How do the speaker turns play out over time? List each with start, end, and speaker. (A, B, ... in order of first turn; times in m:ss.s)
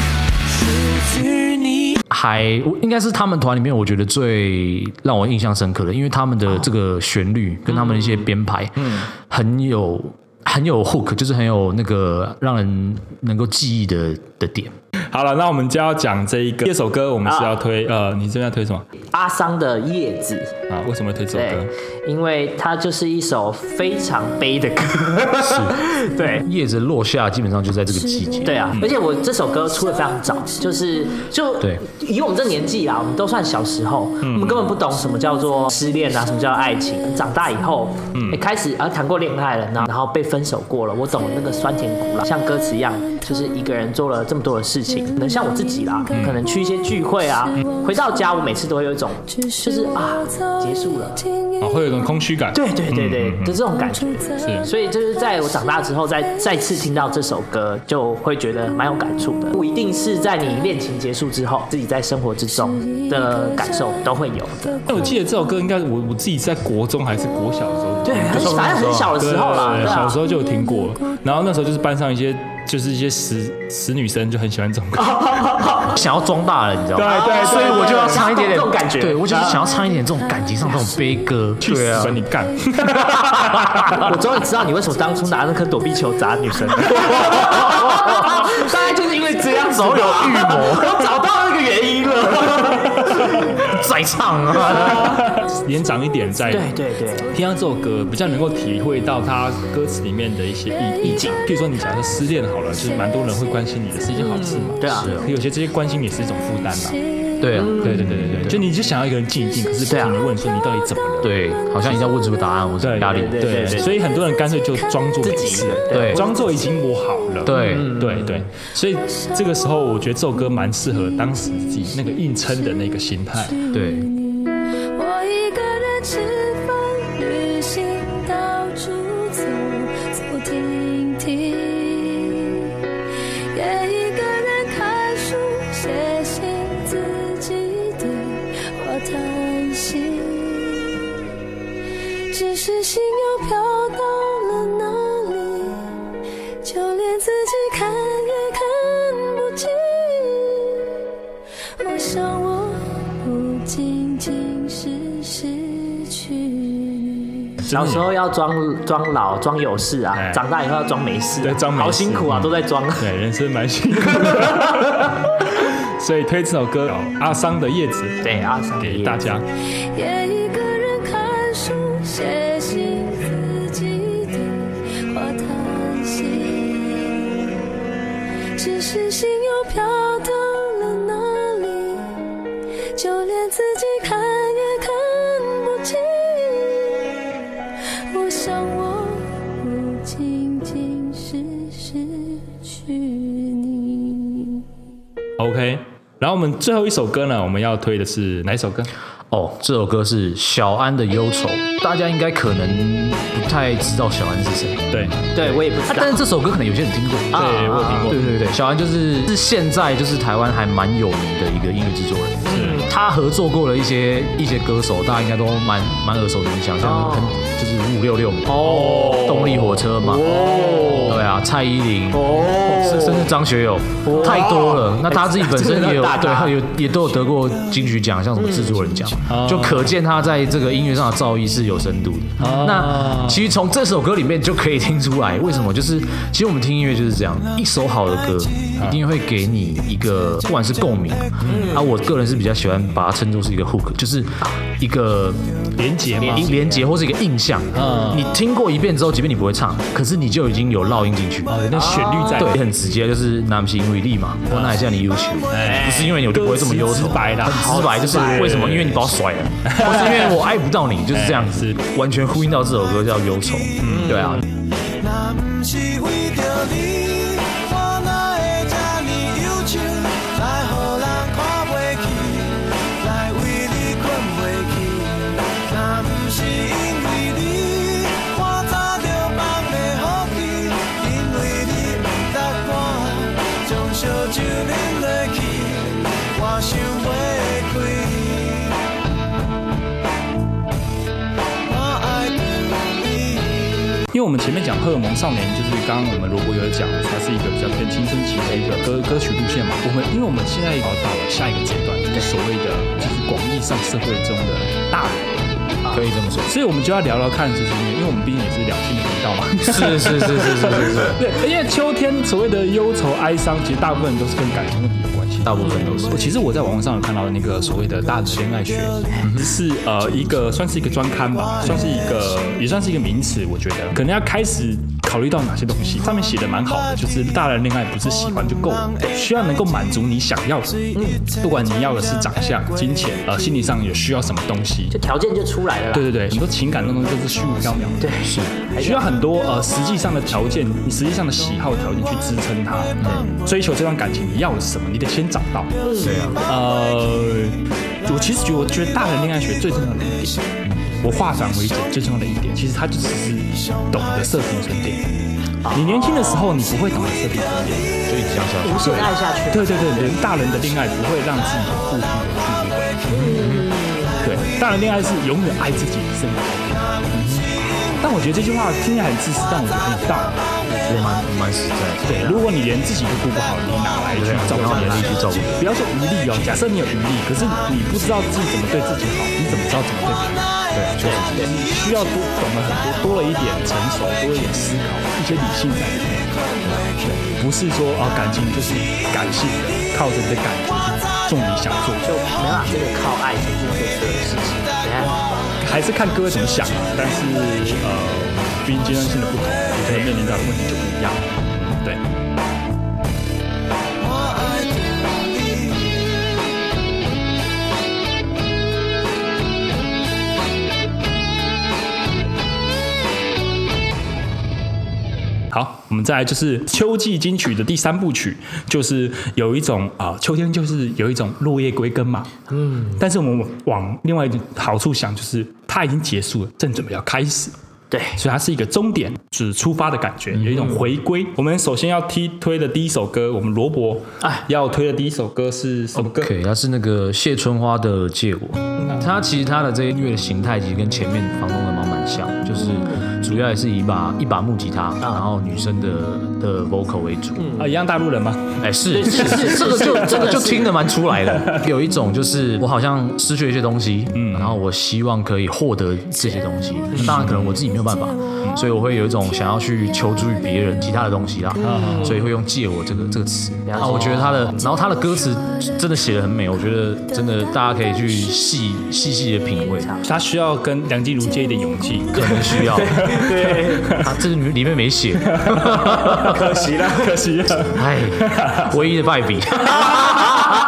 0:00.4-0:02.0 A
0:02.1-0:14.7 B
0:08.8-0:09.1 C
0:15.1-0:18.8 C
0:17.2-0:17.5 D
0:19.1-0:20.6 D
0:20.7-0:21.7 C
0:21.3-0:26.4 D
0:25.4-0:28.8 B
0:28.3-0:28.6 E
0:28.4-0:51.2 D
0:34.2-0:34.6 C
0:38.1-0:38.4 C
0:45.0-0:46.2 E
0:46.1-0:46.4 C
0:47.4-0:48.4 E
0:49.3-0:52.1 E
0:51.6-0:53.6 C
0:52.5-1:04.9 D
0:53.6-0:54.7 E
0:54.4-0:54.7 C
1:02.6-1:04.1 E
1:04.7-1:05.2 E
1:04.9-1:15.5 C
1:08.0-1:10.2 D
1:08.2-1:09.3 B
1:15.0-1:16.0 D
1:15.8-1:22.2 B
1:16.9-1:18.2 C
1:17.0-1:19.6 D
1:20.3-1:20.8 E
1:21.6-1:24.1 C
1:22.9-1:24.1 B
1:23.9-1:33.4 D
1:27.7-1:28.5 B
1:29.6-1:31.0 B
1:33.1-1:33.4 C
1:33.2-1:35.3 B
1:34.6-1:35.2 D
1:34.8-1:36.7 C
1:36.5-1:37.3 D
1:37.3-1:47.0 C
1:41.0-1:41.4 D
1:44.1-1:45.1 E
1:44.2-1:45.1 D
1:44.8-1:45.3 B
1:47.0-1:47.7 E
1:47.4-1:48.6 B
1:47.5-1:48.1 D
1:47.8-1:52.1 C
1:49.9-1:50.2 D
1:51.2-1:53.8 B
1:52.8-2:03.6 C
1:53.0-1:54.0 D
1:55.2-1:56.4 D
1:55.9-1:56.3 B
1:57.4-1:58.0 B
1:57.5-1:58.4 D
2:03.6-2:12.7 E
2:03.7-2:04.1 B
2:13.5-2:21.0 E
2:22.3-2:25.9 E
2:26.6-2:30.8 E
2:31.8-2:37.5 E
2:37.6-2:38.1 C
2:37.7-2:43.1 D
2:40.1-2:40.4 C
2:41.4-2:49.4 C
2:48.2-2:49.2 D
2:49.9-2:57.5 E
2:58.6-3:02.2 E
3:03.0-3:07.0 E
3:08.1-3:14.6 E
3:15.4-3:18.9 C
3:19.3-4:05.5 B
3:24.9-3:25.2 C
3:25.3-3:26.2 D
3:27.3-3:28.2 D
3:27.3-3:28.2 C
3:32.5-3:32.8 D
3:32.5-3:32.8 C
3:36.8-3:37.4 D
3:38.5-3:41.2 D
3:38.8-3:39.0 C
3:42.1-3:43.3 D
3:44.0-3:46.6 D
3:48.4-3:48.9 D
3:49.3-3:49.9 C
3:52.4-3:53.5 C
4:01.4-4:01.7 C
4:01.4-4:01.9 D
4:05.8-4:06.5 C
4:06.2-4:24.4 B
4:06.2-4:06.8 D
4:07.7-4:08.3 C
4:11.5-4:12.6 C
4:11.7-4:12.4 D
4:14.5-4:14.8 C
4:15.5-4:20.4 C
4:15.6-4:16.2 D
4:17.4-4:18.5 D
4:21.1-4:21.8 C
4:23.8-4:24.2 C
4:23.8-4:24.4 D
4:25.0-4:48.3 A
4:54.1-5:05.5 C
5:05.9-5:06.5 B
5:06.4-5:35.0 C
5:09.6-5:11.2 B
5:15.4-5:16.2 B
5:30.9-5:31.2 D
5:34.9-5:36.1 D
5:35.9-5:38.2 C
5:38.0-5:39.1 D
5:38.2-5:38.5 B
5:38.7-5:45.8 C
5:43.0-5:43.3 B
5:45.8-5:46.3 D
5:46.0-5:46.4 B
5:46.4-5:50.4 C
5:51.0-5:55.1 C
5:55.6-5:56.4 D
5:55.7-5:57.9 C
5:58.0-5:59.1 B
5:58.6-6:00.2 D
5:59.5-6:03.0 C
6:03.1-6:04.2 D
6:03.1-6:03.7 B
6:04.2-6:07.5 C
6:08.0-6:10.5 C
6:10.8-6:12.2 B
6:12.0-6:20.5 C
6:12.1-6:12.4 D
6:14.2-6:15.6 B
6:14.5-6:15.0 D
6:20.7-6:21.5 B
6:21.0-6:21.5 D
6:21.4-6:32.1 C
6:32.0-6:35.3 D
6:35.6-6:42.0 C
6:55.5-7:02.3 C
7:02.5-7:03.0 D
7:02.9-7:07.5 C
7:07.9-7:08.2 D
7:08.2-7:16.3 C
7:10.3-7:10.9 B
7:16.0-7:27.5 B
7:18.8-7:19.1 C
7:22.6-7:23.1 D
7:27.4-7:27.7 D
7:27.6-7:28.6 C
7:28.6-7:49.9 B
7:28.9-7:30.9 D
7:29.2-7:29.8 C
7:34.1-7:34.6 C
7:36.9-7:37.6 C
7:36.9-7:37.2 D
7:41.6-7:42.2 C
7:41.7-7:42.2 D
7:43.7-7:44.7 D
7:43.8-7:44.2 C
7:50.0-7:54.1 C
7:52.1-7:53.2 B
7:52.6-7:54.0 D
7:54.0-7:56.4 B
7:55.2-7:58.7 C
7:56.2-7:57.2 D
7:57.7-8:00.6 B
7:59.9-8:00.4 D